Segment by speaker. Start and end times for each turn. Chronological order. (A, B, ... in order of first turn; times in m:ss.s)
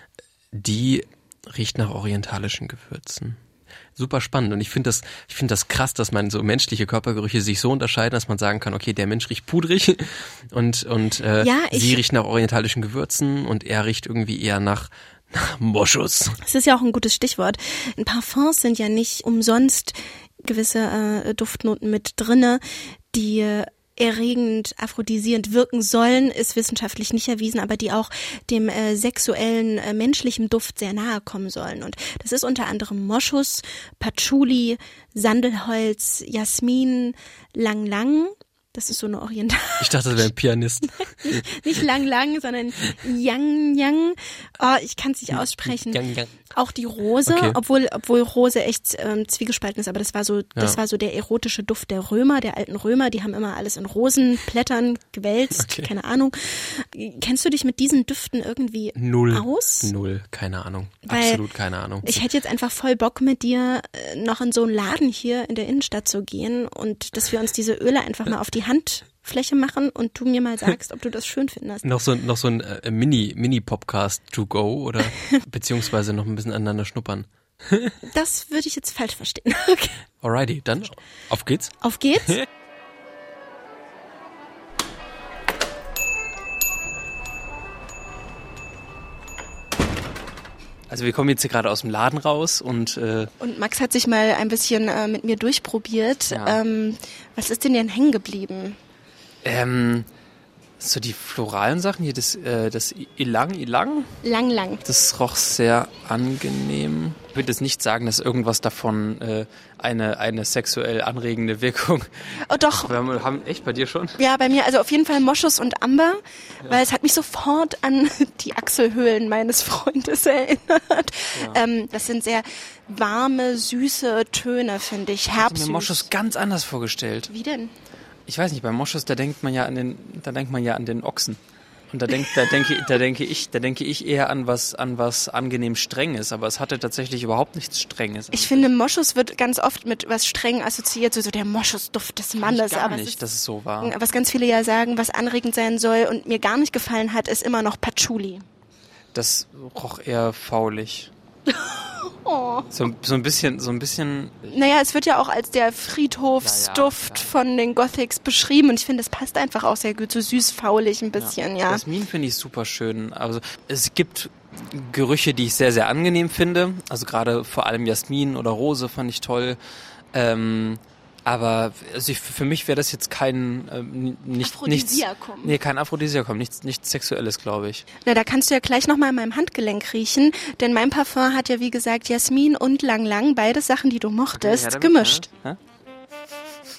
0:00.5-0:03.4 A
0:04.0-0:16.4 A
0:11.4-0:12.0 B
0:16.4-0:22.6 B
0:23.1-0:40.3 B
0:39.8-0:41.5 A
0:41.1-0:46.0 B
0:45.3-0:46.3 A
0:46.6-0:59.9 B
0:47.3-0:47.6 A
0:55.5-0:55.9 A
0:59.0-1:02.3 A
1:01.1-1:01.4 B
1:02.0-1:11.9 B
1:11.8-1:17.9 A
1:18.1-1:20.0 B
1:20.2-1:22.4 A
1:21.8-1:22.4 B
1:30.9-1:33.2 A
1:33.4-1:38.8 B
1:39.5-1:40.1 C
1:40.8-1:44.1 C
1:44.2-1:44.8 B
1:44.8-1:52.2 C
1:52.5-1:52.9 B
1:52.7-1:54.1 C
1:54.2-2:06.1 B
2:05.4-2:07.3 C
2:07.3-2:07.7 B
2:08.3-2:11.4 C
2:11.9-2:18.7 C
2:18.3-2:23.2 B
2:22.4-2:23.9 C
2:23.8-2:28.4 B
2:29.1-2:31.1 C
2:31.8-2:32.6 B
2:32.7-2:34.5 C
2:34.5-2:41.8 B
2:36.4-2:37.3 C
2:41.2-2:49.6 C
2:50.1-2:57.8 C
2:54.4-2:55.6 B
2:58.0-3:05.3 B
3:04.3-3:05.6 C